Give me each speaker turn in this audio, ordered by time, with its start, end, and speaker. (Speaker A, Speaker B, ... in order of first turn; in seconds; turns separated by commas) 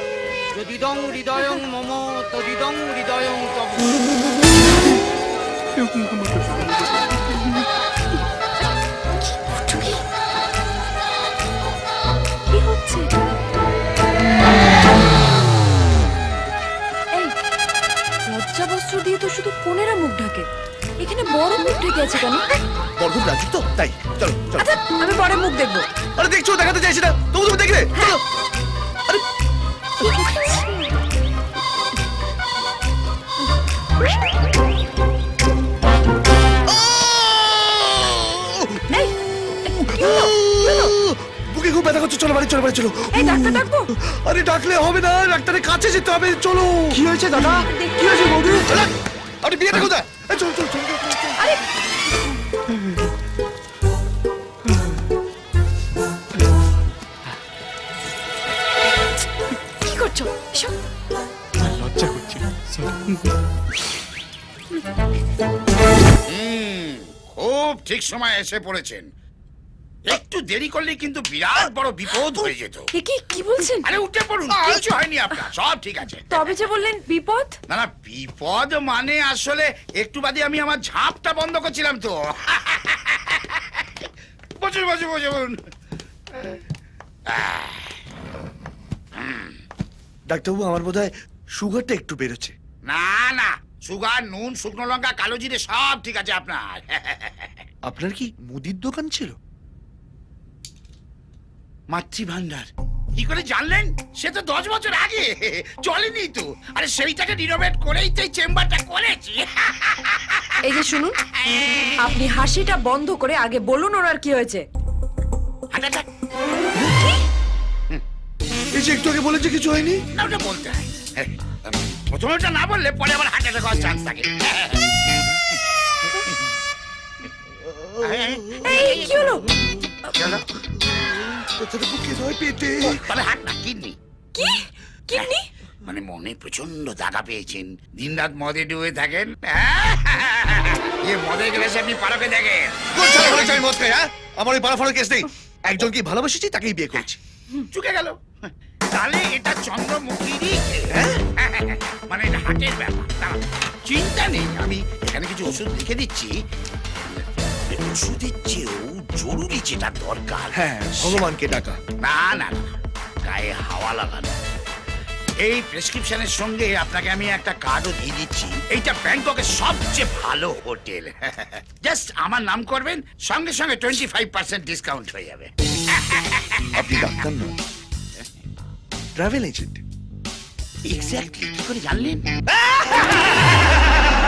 Speaker A: 0.5-4.0, Speaker B: 5.9-6.6, Speaker C: 9.6-10.0, Speaker C: 12.5-13.1, Speaker C: 18.3-20.5, Speaker C: 21.0-22.6, Speaker D: 23.0-24.8, Speaker C: 24.6-25.9, Speaker D: 26.2-28.2, Speaker C: 30.0-30.9, Speaker D: 36.7-38.8, Speaker C: 38.9-41.0, Speaker D: 39.7-51.4, Speaker C: 43.1-43.9, Speaker C: 47.3-48.7, Speaker C: 51.4-51.6, Speaker C: 59.8-60.8, Speaker B: 61.6-63.1, Speaker E: 66.3-69.1, Speaker E: 70.1-72.9, Speaker C: 72.9-73.9, Speaker E: 73.8-76.5, Speaker C: 76.3-77.5, Speaker E: 77.7-85.6, Speaker E: 87.3-88.0, Speaker E: 89.2-89.6, Speaker D: 90.3-92.5, Speaker E: 92.9-97.6, Speaker D: 97.8-99.3, Speaker E: 101.9-110.6, Speaker C: 110.6-111.2, Speaker E: 111.4-111.9, Speaker C: 112.0-114.7, Speaker E: 115.7-116.1, Speaker D: 118.7-120.0, Speaker E: 120.1-125.0, Speaker E: 126.2-126.4, Speaker D: 127.8-128.8, Speaker E: 128.0-129.4, Speaker C: 128.6-129.5, Speaker E: 130.1-130.5, Speaker D: 130.8-133.0, Speaker E: 132.8-133.9, Speaker C: 134.3-135.4, Speaker E: 135.9-143.5, Speaker D: 142.9-147.2, Speaker E: 146.9-150.9, Speaker D: 150.9-151.2, Speaker E: 151.4-156.3, Speaker E: 157.1-161.3, Speaker D: 160.5-161.8, Speaker E: 162.0-162.7, Speaker E: 163.2-164.4, Speaker E: 165.4-176.9, Speaker D: 176.7-177.5, Speaker D: 179.2-179.8, Speaker E: 180.9-183.8